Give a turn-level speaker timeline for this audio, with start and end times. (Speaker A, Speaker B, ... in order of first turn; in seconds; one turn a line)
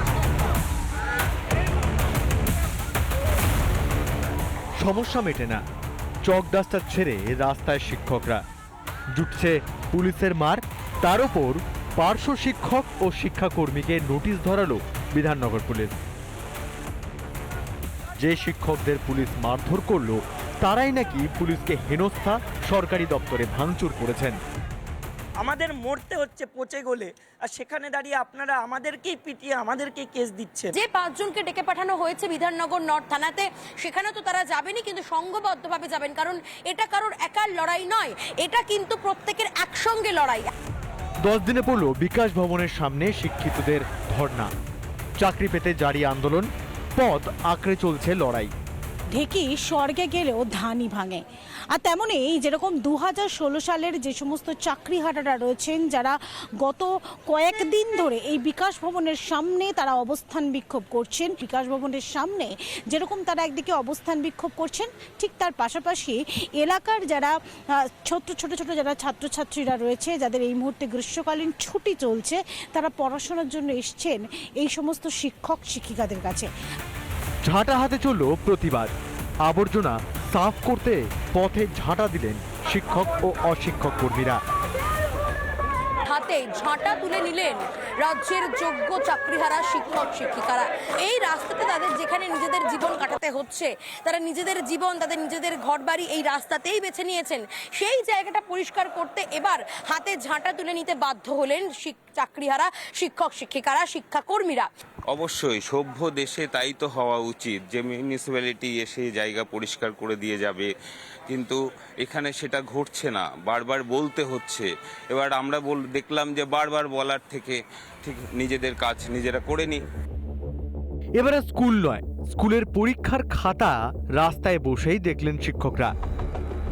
Speaker A: 4.8-5.6
Speaker A: 6.2-8.4
Speaker A: 9.1-15.9
Speaker A: 18.2-24.4
Speaker B: 25.4-30.7
Speaker C: 30.7-40.5
Speaker A: 41.2-44.5
Speaker A: 45.2-48.5
Speaker D: 49.1-51.2
Speaker D: 51.7-76.5
Speaker A: 77.4-78.9
Speaker A: 79.4-84.4
Speaker C: 86.1-104.7
Speaker E: 105.1-110.7
Speaker E: 111.3-119.8
Speaker A: 121.2-125.9